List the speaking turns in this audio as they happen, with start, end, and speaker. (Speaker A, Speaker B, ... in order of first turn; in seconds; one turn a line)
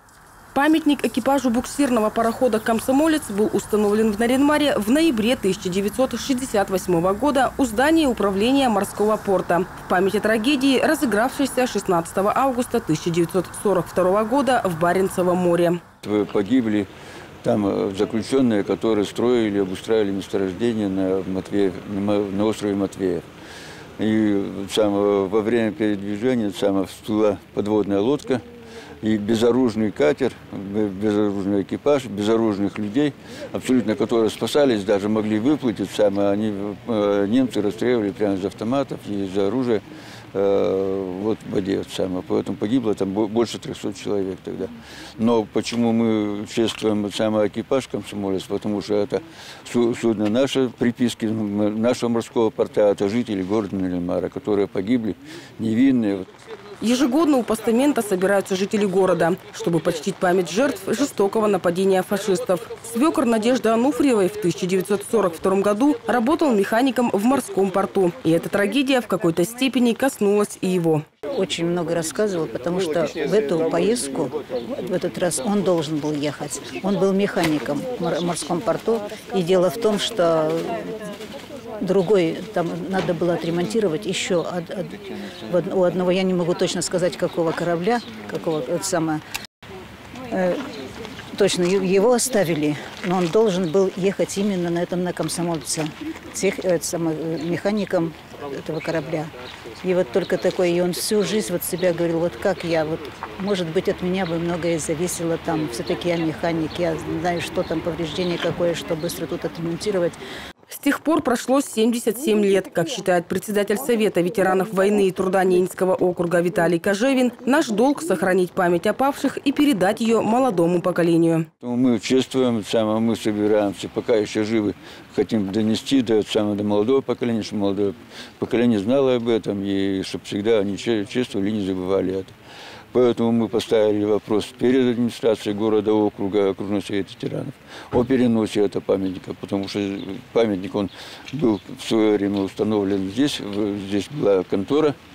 Speaker A: 0.5-15.8
Speaker B: 16.0-16.9
Speaker B: 17.4-23.2
Speaker B: 24.0-28.4
Speaker B: 29.0-56.3
Speaker A: 56.8-71.0
Speaker C: 71.3-80.9
Speaker C: 81.8-85.0
Speaker C: 85.5-89.2
Speaker C: 90.3-90.6
Speaker C: 91.3-110.2
Speaker A: 110.7-121.5
Speaker B: 121.6-132.3
Speaker B: 132.9-144.9